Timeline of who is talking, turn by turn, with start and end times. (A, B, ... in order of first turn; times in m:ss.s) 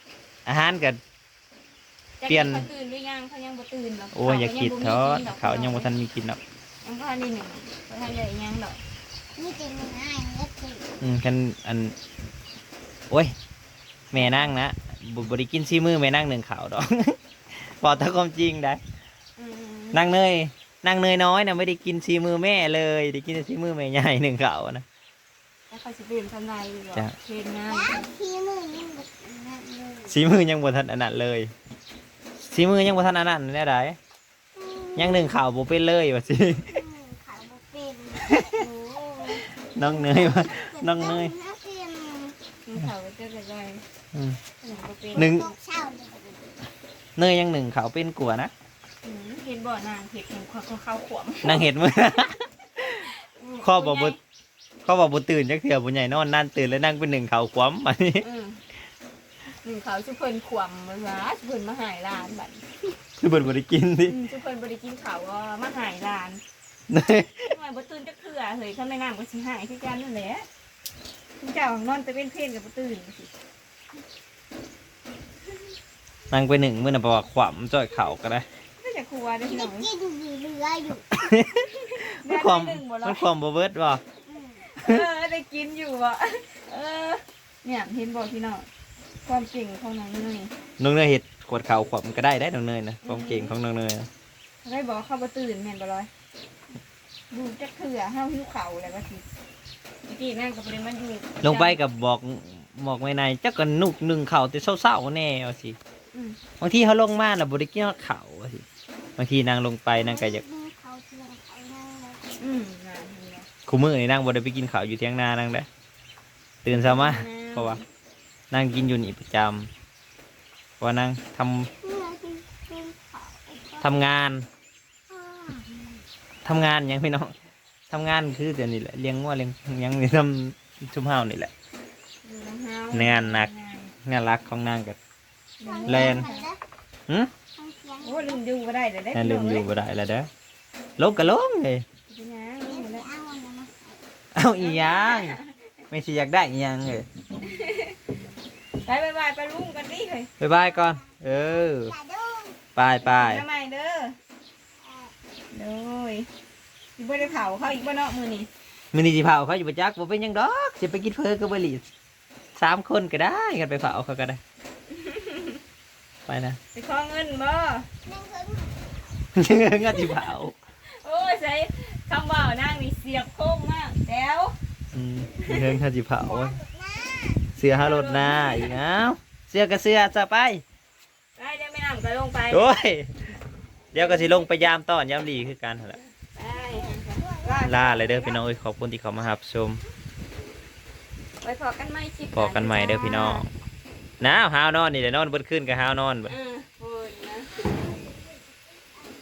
0:00.5-0:01.0 A
0:02.2-0:05.9 B
0:02.3-0:02.7 A
0:04.1-0:06.4 A
0:06.8-0:08.8 B
0:09.4-0:10.9 C
0:11.0-0:12.0 A
0:14.1-0:17.2 A
0:14.1-0:14.6 B
0:17.8-0:18.8 A
0:19.4-0:20.0 B
0:19.9-0:24.8 A
0:25.7-0:28.1 B
0:27.7-0:30.2 C
0:30.0-0:31.5 A
0:32.5-0:34.0 A
0:34.6-0:35.3 C
0:35.0-0:36.8 A
0:36.7-0:42.4 C
0:38.2-0:38.6 A
0:38.6-0:39.4 B
0:39.6-0:41.3 A
0:42.7-0:43.8 B
0:44.1-0:44.4 A
0:44.6-0:45.3 B
0:45.1-0:46.5 C
0:45.2-0:45.5 A
0:47.2-0:48.5 A
0:49.0-0:51.7 B
0:51.4-0:53.1 A
0:53.0-0:54.2 B
0:53.6-0:54.2 A
0:54.8-0:58.2 A
0:58.2-0:58.6 B
0:59.6-1:02.6 B
1:03.2-1:04.1 A
1:04.1-1:06.4 B
1:06.9-1:07.5 A
1:07.4-1:10.4 B
1:11.4-1:13.3 B
1:16.3-1:18.5 A
1:18.8-1:19.9 B
1:19.5-1:21.4 C
1:21.2-1:24.0 A
1:21.9-1:23.2 B
1:24.2-1:24.7 C
1:24.6-1:28.7 B
1:29.2-1:30.5 B
1:30.8-1:34.1 A
1:33.0-1:33.6 B
1:34.6-1:36.1 B
1:37.3-1:39.3 B
1:40.1-1:41.8 B
1:41.4-1:45.8 A
1:46.1-1:46.4 B
1:46.6-1:48.6 A
1:49.2-1:50.4 A
1:49.9-1:52.4 C
1:52.4-1:53.5 B
1:53.7-1:55.7 A
1:56.6-1:57.8 A
1:56.8-1:57.8 B
1:58.5-1:59.7 A
2:00.8-2:01.7 A
2:01.8-2:04.0 C
2:03.8-2:04.5 A
2:05.1-2:06.0 C
2:06.4-2:07.3 A
2:07.9-2:11.5 A
2:12.2-2:13.9 B
2:12.9-2:13.5 A
2:14.0-2:15.0 A
2:15.6-2:16.5 B
2:15.6-2:16.6 C
2:15.9-2:16.3 A
2:17.6-2:18.4 C
2:18.0-2:19.7 B
2:19.1-2:20.3 A
2:21.0-2:21.8 A
2:22.1-2:23.1 B
2:22.7-2:24.0 C
2:24.4-2:25.4 A
2:24.6-2:25.6 B
2:25.9-2:27.1 A
2:27.4-2:28.0 B
2:28.8-2:30.3 B
2:30.4-2:32.0 A
2:30.8-2:32.6 C
2:32.8-2:33.4 A
2:33.1-2:34.1 B
2:34.8-2:35.1 C
2:35.5-2:36.3 B
2:37.0-2:38.5 B
2:38.9-2:41.8 A
2:42.6-2:44.4 A
2:44.9-2:45.6 B
2:46.3-2:46.6 A
2:46.7-2:47.9 B
2:48.1-2:48.9 C
2:49.4-2:50.6 A
2:51.0-2:54.5 B
2:54.9-2:56.6 A
2:56.2-2:57.6 C
2:57.6-3:00.6 A
2:57.7-2:58.8 B
3:01.4-3:02.7 B
3:02.5-3:03.3 A
3:03.9-3:06.0 A
3:04.0-3:04.6 B
3:06.3-3:08.4 B
3:06.5-3:08.1 C
3:07.6-3:09.8 A
3:11.4-3:13.4 B
3:12.3-3:13.5 A
3:14.2-3:16.3 A
3:16.2-3:17.8 B
3:17.6-3:18.9 C